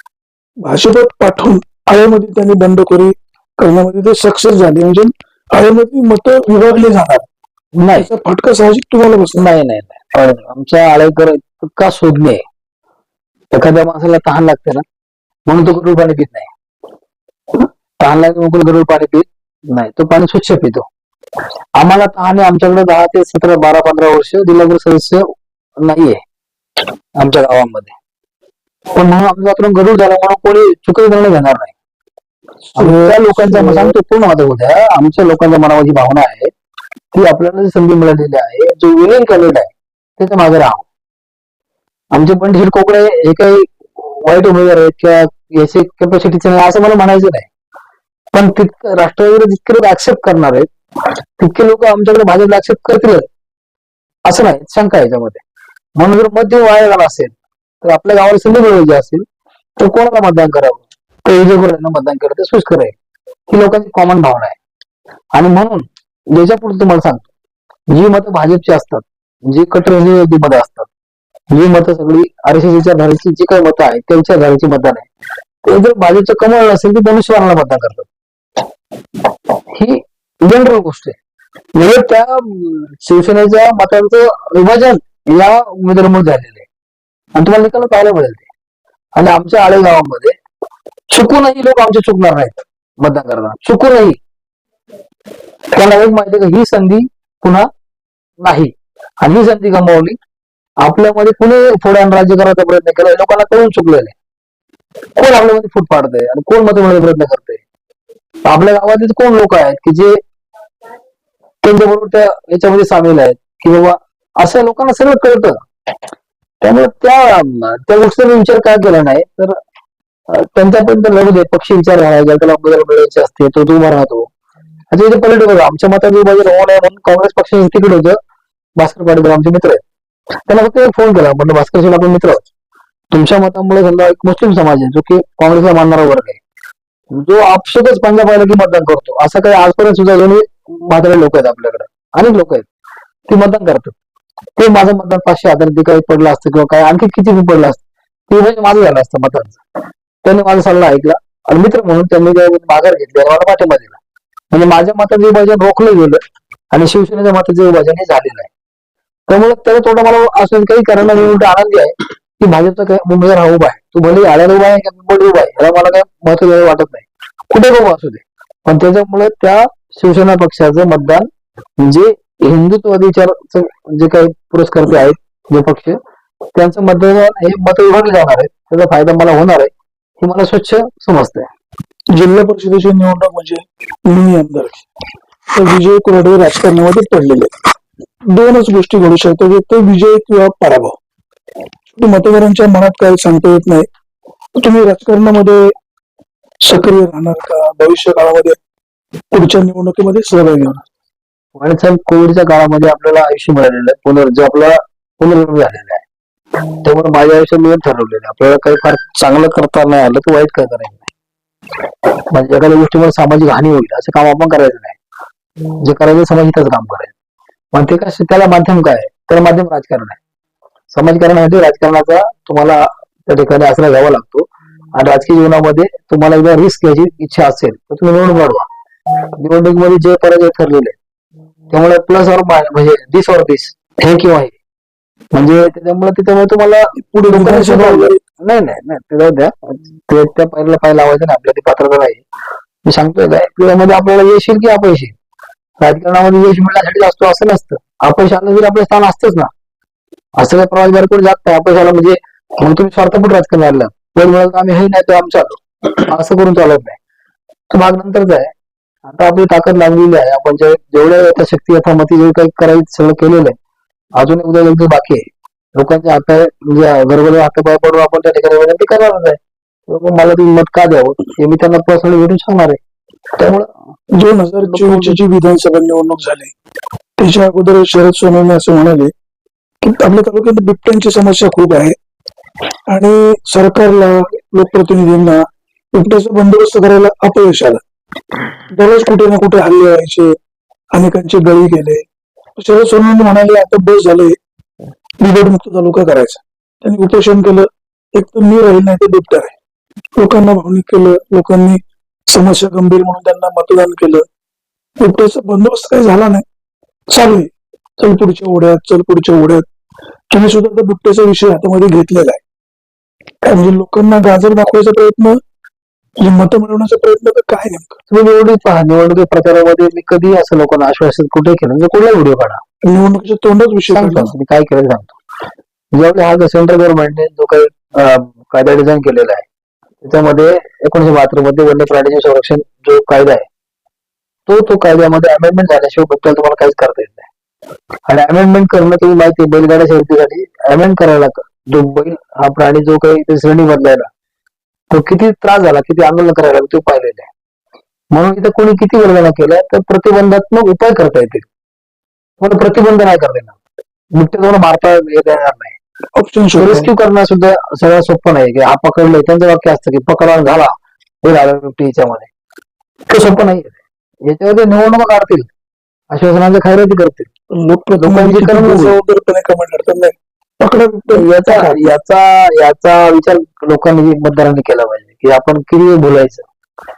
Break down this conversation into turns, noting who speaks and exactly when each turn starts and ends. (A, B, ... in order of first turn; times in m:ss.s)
0:00.6-0:07.3 A
0:07.8-0:08.1 B
0:08.0-0:09.5 A
0:09.4-0:12.4 B
0:13.5-0:14.8 B
0:15.5-0:16.5 B
0:17.6-0:20.9 B
0:21.8-0:26.2 B
0:27.2-0:27.9 B
0:29.0-0:31.7 B
0:32.8-0:33.9 A
0:32.8-0:36.5 B
0:37.1-0:40.8 B
0:42.1-0:47.5 B
0:48.3-0:50.7 B
0:51.4-0:53.3 B
0:54.3-0:55.4 B
0:56.0-0:59.3 B
0:59.8-1:02.9 B
1:03.5-1:04.6 B
1:05.3-1:07.3 B
1:07.9-1:10.9 B
1:11.5-1:15.1 B
1:15.6-1:18.1 B
1:19.7-1:21.2 B
1:21.8-1:26.7 B
1:27.4-1:28.5 B
1:29.2-1:30.4 B
1:31.1-1:34.2 B
1:35.7-1:37.7 B
1:38.4-1:40.2 B
1:40.8-1:44.2 B
1:45.2-1:47.6 B
1:48.4-1:50.2 B
1:51.6-1:55.6 B
1:56.6-1:59.6 B
2:00.3-2:04.3 B
2:04.9-2:08.2 B
2:08.8-2:09.8 B
2:10.5-2:12.4 B
2:13.1-2:16.4 B
2:17.1-2:22.7 B
2:23.3-2:23.9 B
2:24.6-2:29.6 B
2:30.2-2:34.0 B
2:34.5-2:36.2 B
2:36.7-2:38.5 B
2:39.3-2:51.3 B
2:51.8-2:56.0 B
2:56.6-3:01.5 B
3:02.1-3:04.8 A
3:05.5-3:07.5 A
3:08.3-3:11.0 A
3:12.0-3:13.9 A
3:14.6-3:15.6 A
3:16.6-3:18.6 A
3:19.3-3:20.8 A
3:21.6-3:26.0 B
3:26.8-3:31.1 B
3:32.3-3:35.0 B
3:35.8-3:37.1 B
3:37.7-3:40.2 B
3:40.9-3:48.7 B
3:49.4-3:51.0 B
3:51.7-3:54.6 B
3:55.3-4:02.2 B
3:57.0-3:58.2 A
4:02.9-4:05.1 B
4:05.8-4:09.5 B
4:10.4-4:17.0 B
4:17.7-4:18.5 B
4:19.0-4:23.6 B
4:24.2-4:25.2 B
4:25.8-4:32.8 B
4:33.4-4:33.7 B
4:34.2-4:36.5 A
4:34.6-4:35.2 B
4:37.2-4:39.1 A
4:39.8-4:42.0 A
4:42.9-4:45.4 A
4:46.0-4:47.8 A
4:48.7-4:50.3 A
4:50.9-4:52.0 A
4:52.6-4:54.4 A
4:55.2-4:59.5 A
5:00.2-5:04.2 A
5:05.0-5:06.4 A
5:07.1-5:09.7 A
5:10.3-5:12.4 A
5:13.4-5:15.4 A
5:16.2-5:18.0 A
5:18.1-5:22.6 B
5:22.8-5:24.3 A
5:23.9-5:25.2 B
5:25.9-5:29.5 B
5:30.0-5:33.5 B
5:34.5-5:37.3 B
5:38.1-5:44.1 B
5:44.9-5:47.3 B
5:48.1-5:51.5 B
5:52.4-5:53.6 B
5:54.2-5:55.8 B
5:56.2-5:56.9 A
5:56.6-6:00.7 B
6:01.2-6:02.3 B
6:03.1-6:05.5 B
6:06.1-6:07.3 B
6:07.5-6:11.9 A
6:08.0-6:09.0 B
6:11.1-6:16.5 B